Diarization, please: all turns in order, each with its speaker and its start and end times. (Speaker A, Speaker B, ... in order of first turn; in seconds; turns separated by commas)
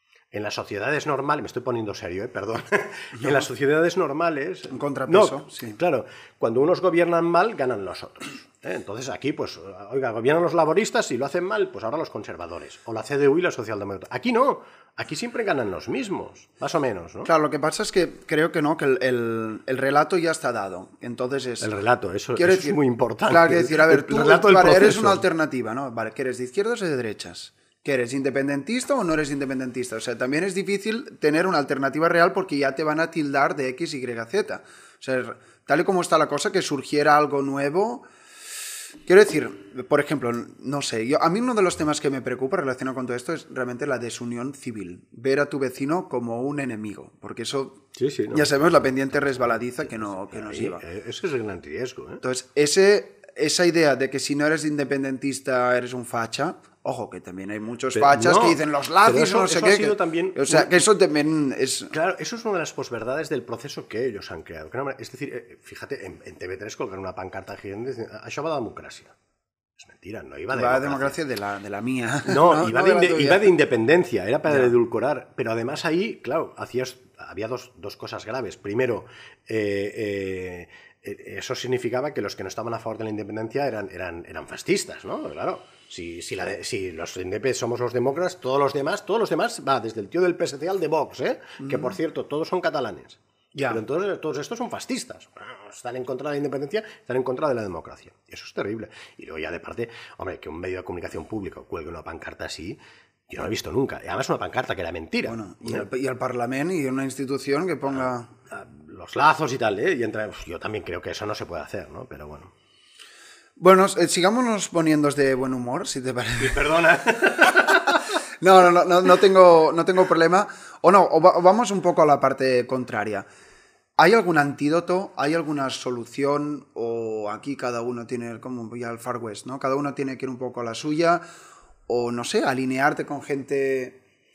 Speaker A: 0.3-17.3, Speaker B: 4.7-5.8, Speaker B: 17.2-21.7, Speaker A: 21.6-25.2, Speaker B: 22.4-38.0, Speaker B: 39.1-50.8, Speaker A: 48.0-48.5, Speaker A: 50.0-52.2, Speaker B: 52.2-61.9, Speaker A: 57.9-60.8, Speaker A: 61.9-69.1, Speaker A: 69.8-71.2, Speaker B: 70.5-73.5, Speaker A: 72.2-105.8, Speaker B: 74.5-74.7, Speaker B: 91.6-91.9, Speaker B: 93.5-93.8, Speaker B: 105.2-108.3, Speaker A: 108.5-112.5, Speaker B: 113.6-116.6, Speaker A: 116.4-118.0, Speaker B: 117.3-123.2, Speaker B: 124.0-131.2, Speaker B: 131.9-134.0